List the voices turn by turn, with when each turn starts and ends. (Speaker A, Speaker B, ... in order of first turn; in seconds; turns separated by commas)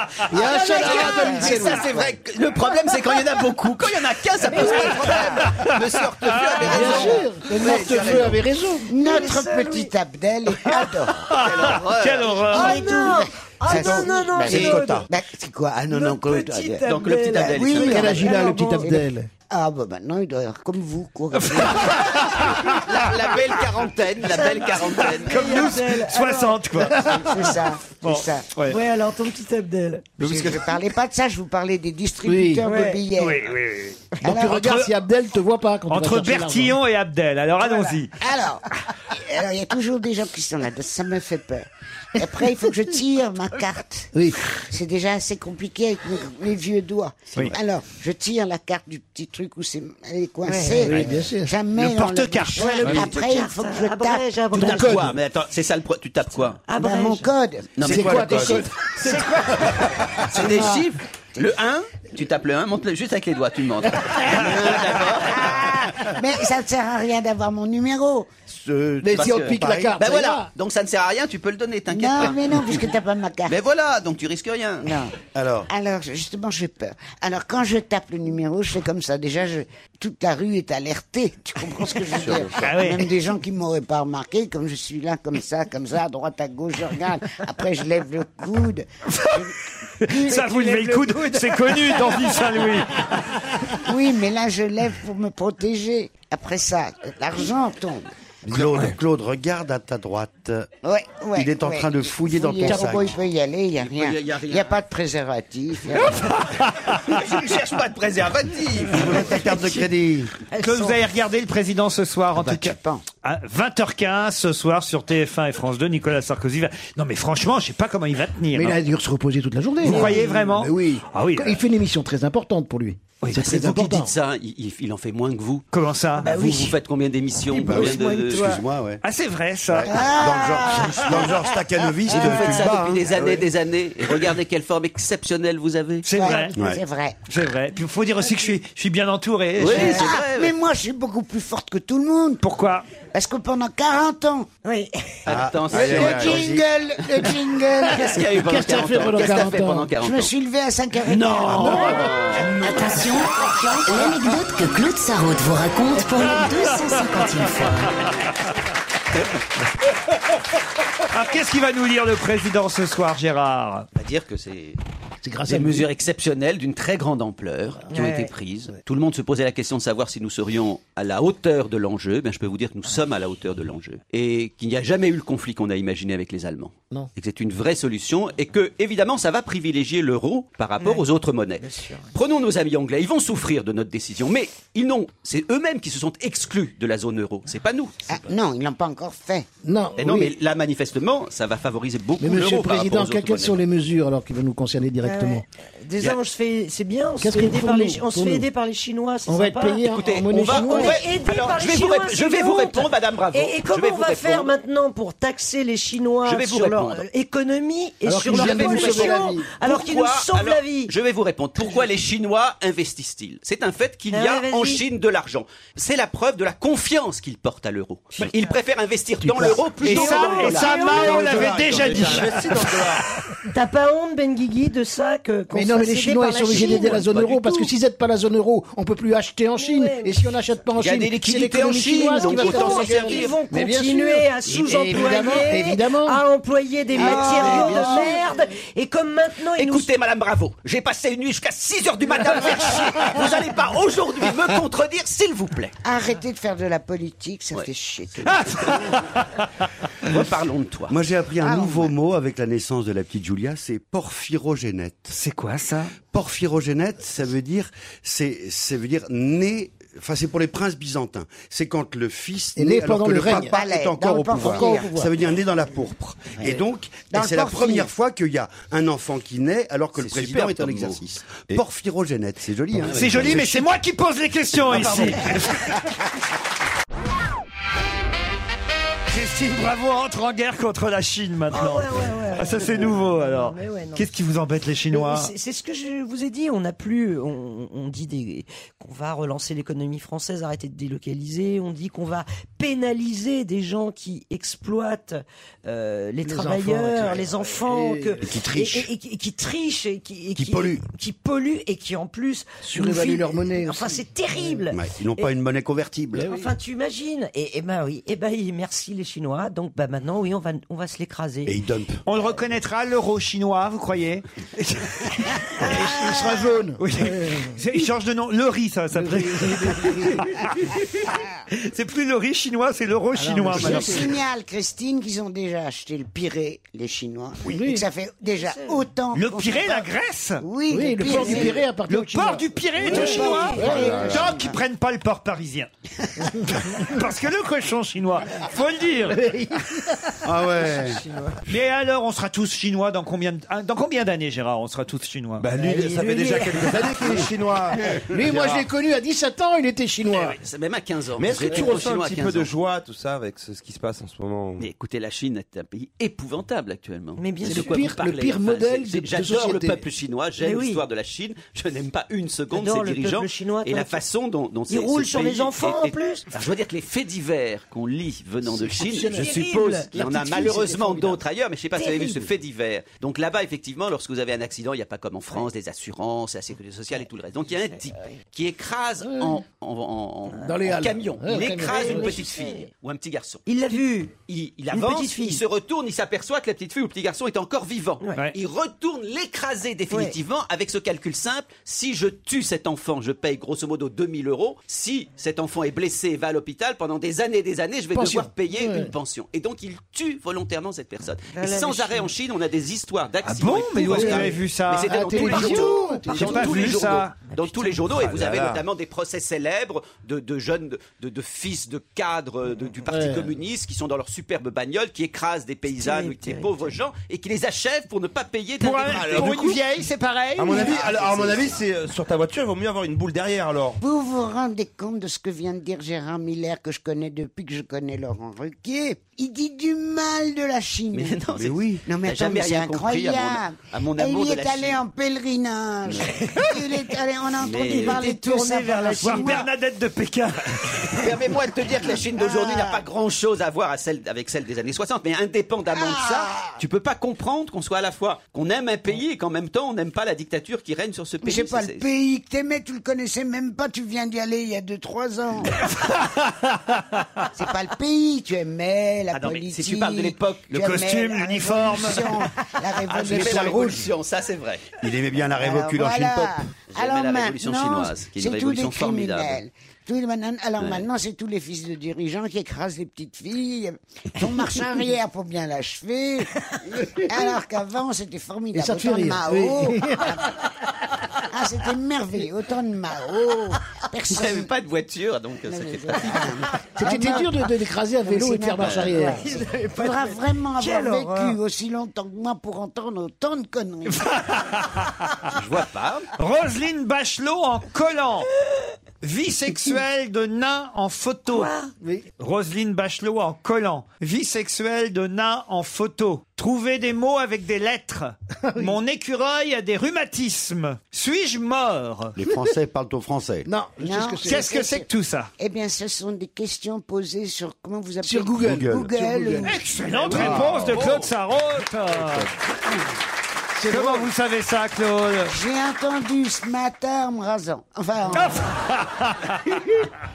Speaker A: 0.3-1.8, Speaker B: 0.3-2.2, Speaker C: 0.6-1.6, Speaker D: 0.8-8.3, Speaker C: 4.5-4.9, Speaker A: 6.7-8.9, Speaker B: 6.7-8.3, Speaker B: 8.8-11.2, Speaker C: 9.0-9.9, Speaker D: 11.3-12.5, Speaker E: 11.3-12.9, Speaker C: 12.5-15.1, Speaker B: 12.5-22.2, Speaker A: 14.5-14.9, Speaker C: 15.9-18.9, Speaker D: 16.9-18.1, Speaker A: 17.8-19.3, Speaker E: 21.3-22.8, Speaker D: 22.7-25.6, Speaker C: 24.2-26.6, Speaker E: 25.2-27.4, Speaker B: 27.1-28.4, Speaker E: 28.0-28.8, Speaker C: 28.7-30.2, Speaker B: 30.2-33.5, Speaker A: 32.2-32.7, Speaker C: 32.6-33.0, Speaker E: 33.1-34.9, Speaker B: 34.2-34.5, Speaker A: 34.2-36.8, Speaker E: 35.9-38.1, Speaker B: 38.2-54.3, Speaker A: 44.1-44.4, Speaker C: 50.5-51.1, Speaker A: 50.8-51.5, Speaker E: 51.7-53.1, Speaker C: 52.6-55.0, Speaker A: 54.5-55.1, Speaker D: 54.5-56.6, Speaker C: 56.6-57.3, Speaker B: 56.8-57.8, Speaker D: 57.8-59.6, Speaker A: 57.8-59.2, Speaker F: 57.8-58.6, Speaker C: 59.0-59.9, Speaker D: 60.2-65.5, Speaker A: 60.4-60.8, Speaker B: 65.2-68.3, Speaker G: 68.5-69.2, Speaker A: 69.0-70.5, Speaker D: 69.1-72.8, Speaker F: 69.6-69.9, Speaker B: 71.9-73.5, Speaker D: 73.5-74.9, Speaker B: 74.8-75.1, Speaker G: 75.3-75.7, Speaker B: 75.7-91.1, Speaker E: 82.6-83.1, Speaker E: 89.1-89.4, Speaker E: 90.0-93.3, Speaker B: 93.8-98.0, Speaker G: 98.5-100.7, Speaker F: 98.5-98.8, Speaker B: 100.8-106.3, Speaker G: 101.4-103.0, Speaker D: 103.8-104.8, Speaker E: 106.4-106.7, Speaker D: 107.1-109.5, Speaker G: 109.0-110.3, Speaker C: 110.5-111.0, Speaker E: 110.6-118.8, Speaker B: 112.3-113.0, Speaker A: 118.5-124.1, Speaker E: 119.8-121.6, Speaker C: 119.9-120.5, Speaker D: 123.4-125.7, Speaker E: 125.7-126.3, Speaker C: 126.2-126.8, Speaker D: 126.2-128.6, Speaker C: 127.5-128.6, Speaker G: 127.7-129.0, Speaker E: 129.0-129.9, Speaker B: 129.9-131.5, Speaker G: 130.2-133.0, Speaker F: 131.8-133.4, Speaker B: 132.0-132.7, Speaker D: 132.1-136.1, Speaker E: 136.1-136.5, Speaker B: 136.1-137.2, Speaker E: 137.3-140.0, Speaker D: 139.6-140.5, Speaker B: 139.7-142.4, Speaker E: 142.4-142.9, Speaker B: 143.1-144.5, Speaker C: 144.6-145.1, Speaker D: 145.3-146.6, Speaker F: 145.7-146.4, Speaker B: 145.8-148.1, Speaker A: 147.9-149.9, Speaker D: 147.9-150.3, Speaker B: 150.0-151.9, Speaker D: 151.1-152.6, Speaker A: 151.6-152.0, Speaker H: 152.6-157.9, Speaker E: 161.1-163.9, Speaker D: 163.9-164.8, Speaker A: 165.2-165.9, Speaker D: 165.4-187.9, Speaker C: 167.9-168.3, Speaker C: 180.8-181.1, Speaker C: 181.6-182.1, Speaker B: 188.1-189.5, Speaker A: 189.6-190.3, Speaker D: 190.0-193.6, Speaker A: 192.2-195.4, Speaker C: 195.0-210.9, Speaker A: 197.2-198.5, Speaker A: 199.3-201.0, Speaker D: 199.9-204.5, Speaker D: 206.2-207.1, Speaker A: 208.0-209.6, Speaker D: 208.3-221.2, Speaker C: 214.1-214.8, Speaker A: 219.2-219.6, Speaker C: 219.8-222.2, Speaker E: 219.8-222.5, Speaker F: 220.8-223.0, Speaker C: 223.4-227.7, Speaker A: 225.5-236.2, Speaker D: 226.6-227.2, Speaker C: 229.5-230.3, Speaker D: 230.8-233.4, Speaker C: 231.9-239.9, Speaker A: 236.9-238.2, Speaker B: 237.0-238.1, Speaker D: 239.6-245.7, Speaker B: 245.8-248.4, Speaker E: 248.3-249.2, Speaker D: 250.1-250.9, Speaker G: 250.9-255.1, Speaker B: 251.4-251.9, Speaker E: 255.1-255.9, Speaker G: 256.0-273.6, Speaker A: 262.6-263.6, Speaker B: 263.3-265.2, Speaker A: 264.4-265.0, Speaker B: 267.1-267.9, Speaker D: 269.9-271.5, Speaker D: 272.8-273.4, Speaker E: 272.9-275.8, Speaker G: 274.7-275.0, Speaker E: 279.1-285.3, Speaker C: 281.5-284.1, Speaker C: 284.9-305.3, Speaker A: 296.2-298.2, Speaker G: 298.3-298.9, Speaker G: 300.4-300.8, Speaker A: 302.6-304.6, Speaker G: 304.7-306.3, Speaker A: 306.1-306.5, Speaker C: 306.2-311.6, Speaker G: 311.4-312.0, Speaker E: 312.1-315.4, Speaker A: 315.7-317.5, Speaker B: 315.9-316.5, Speaker E: 316.8-320.7, Speaker A: 318.9-320.2, Speaker E: 321.6-324.0, Speaker A: 323.1-324.2, Speaker B: 323.5-329.9, Speaker A: 327.5-327.8, Speaker C: 328.4-328.8, Speaker E: 329.1-330.4, Speaker B: 330.4-331.6, Speaker A: 330.7-334.2, Speaker E: 331.2-335.7, Speaker C: 332.8-334.1, Speaker B: 332.9-334.6, Speaker E: 336.4-339.2, Speaker A: 339.1-340.1, Speaker G: 340.3-340.9, Speaker C: 340.7-341.4, Speaker E: 341.5-345.5, Speaker F: 345.4-348.6, Speaker C: 345.6-346.9, Speaker A: 346.7-347.3, Speaker A: 348.1-350.4, Speaker D: 350.4-352.5, Speaker F: 351.2-354.6, Speaker D: 354.6-383.4, Speaker C: 357.2-358.0, Speaker A: 357.4-359.8, Speaker C: 360.4-360.8, Speaker C: 362.5-364.0, Speaker C: 364.7-366.2, Speaker A: 368.5-371.1, Speaker C: 369.0-371.1, Speaker C: 371.7-372.3, Speaker A: 379.0-379.4, Speaker A: 380.4-382.2, Speaker C: 381.5-382.7, Speaker C: 383.5-384.2, Speaker D: 384.1-419.6, Speaker C: 384.7-385.4, Speaker C: 388.0-388.3, Speaker C: 389.9-390.1, Speaker A: 397.9-398.9, Speaker C: 401.3-402.1, Speaker E: 403.2-407.1, Speaker A: 403.9-406.8, Speaker C: 407.1-407.8, Speaker F: 407.9-408.6, Speaker A: 412.9-413.3, Speaker C: 415.7-416.7, Speaker E: 418.6-420.8, Speaker F: 418.9-419.5, Speaker F: 420.4-423.8, Speaker D: 420.5-421.6, Speaker B: 423.8-431.2, Speaker D: 430.9-434.8, Speaker G: 431.4-431.8, Speaker B: 431.8-439.5, Speaker D: 437.4-438.1, Speaker C: 437.6-439.4, Speaker E: 439.0-441.0, Speaker D: 440.9-451.9, Speaker B: 442.1-442.9, Speaker B: 445.7-446.6, Speaker B: 451.2-455.5, Speaker E: 455.6-457.1, Speaker B: 457.3-463.9, Speaker D: 459.1-460.6, Speaker E: 460.5-462.1, Speaker D: 462.9-464.7, Speaker G: 464.8-466.3, Speaker B: 465.3-476.3, Speaker D: 466.7-469.4, Speaker D: 470.6-470.8, Speaker B: 477.0-480.4, Speaker A: 478.5-480.1, Speaker B: 481.3-484.5, Speaker D: 484.1-486.3, Speaker B: 485.5-487.4, Speaker A: 486.8-489.2, Speaker B: 488.0-494.0, Speaker D: 488.6-488.9, Speaker C: 489.2-491.4, Speaker E: 493.9-495.1, Speaker D: 495.3-496.1, Speaker E: 496.2-498.3, Speaker E: 499.0-501.5, Speaker C: 501.3-501.7, Speaker A: 501.8-502.1, Speaker E: 502.2-512.1, Speaker A: 508.4-508.8, Speaker G: 512.1-513.5, Speaker A: 513.4-514.5, Speaker B: 513.8-514.9, Speaker E: 514.2-515.3, Speaker B: 515.4-520.1, Speaker A: 518.0-519.5, Speaker G: 518.4-518.9, Speaker E: 519.4-522.3, Speaker A: 520.1-520.4, Speaker D: 520.5-521.1, Speaker A: 523.5-524.1, Speaker E: 523.7-525.3, Speaker B: 525.3-528.4, Speaker E: 528.1-529.4